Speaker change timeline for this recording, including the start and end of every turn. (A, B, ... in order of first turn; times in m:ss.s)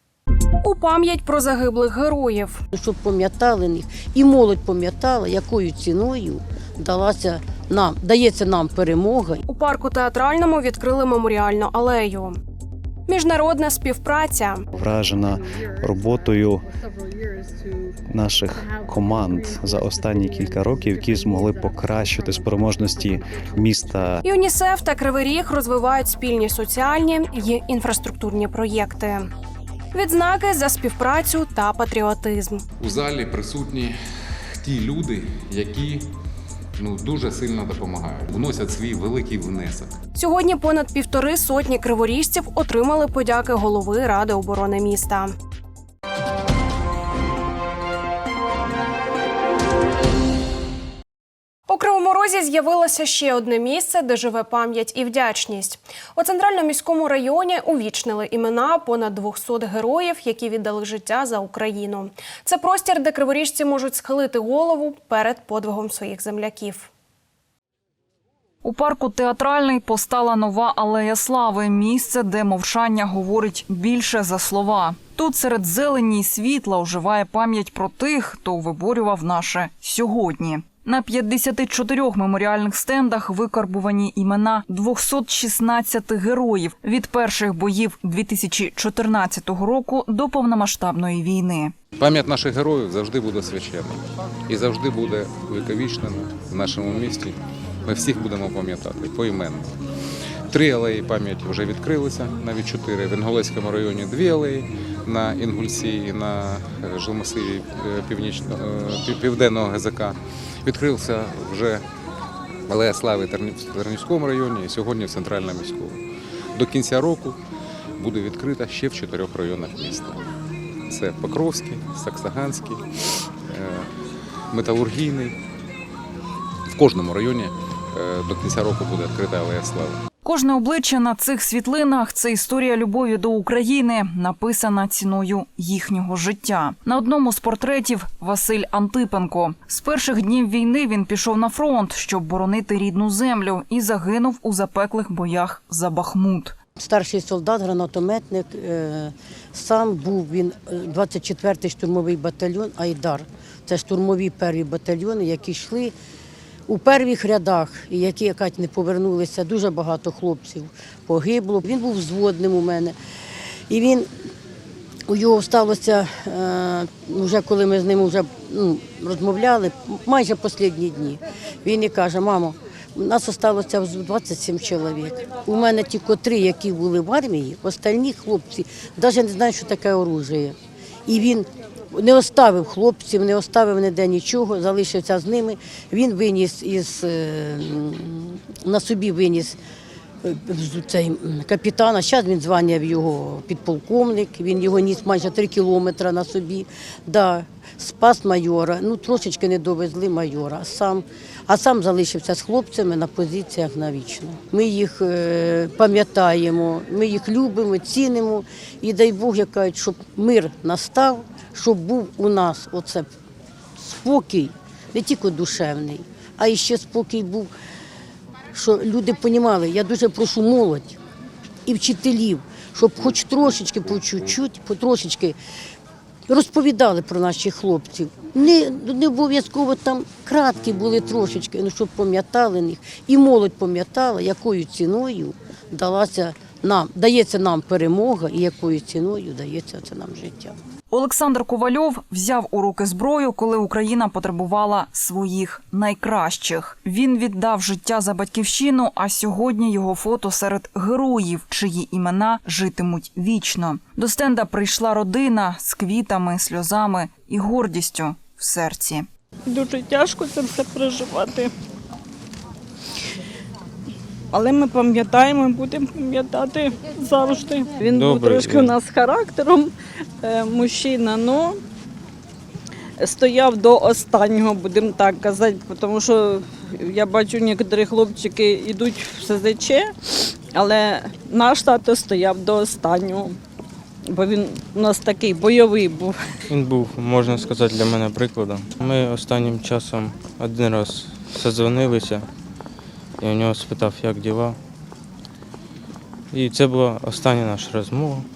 0:00.6-0:02.6 A
0:02.7-0:09.4 B
0:09.5-0:12.4 A
0:13.1-0:14.6 A
0:14.7-0:16.6 C
0:18.1-0:24.2 C
0:24.2-0:29.3 A
0:29.9-0:32.6 A
0:32.8-0:36.1 D
0:36.8-0:40.0 D
0:40.2-0:45.3 A
0:51.7-1:06.9 A
1:08.6-1:31.7 E
1:32.0-1:39.7 D
1:40.5-1:51.8 D
1:52.7-1:56.0 D
1:56.5-1:57.4 D
1:58.0-2:00.2 D
2:00.9-2:03.9 D
2:04.5-2:05.4 D
2:06.7-2:10.0 D
2:10.2-2:26.5 E
2:26.8-2:35.9 B
2:36.7-2:42.9 B
2:43.7-2:44.1 B
2:45.1-3:09.6 B
3:10.2-3:33.1 B
3:33.8-3:37.5 B
3:38.5-3:41.0 B
3:41.6-3:45.4 B
3:46.3-4:00.5 B
4:00.9-4:19.1 E
4:19.5-4:21.5 F
4:24.3-4:31.6 F
4:27.9-4:28.7 G
4:33.0-4:39.9 F
4:40.5-4:43.4 F
4:44.1-4:46.2 F
4:46.5-4:52.3 G
4:53.2-4:54.6 G
4:56.3-4:58.2 G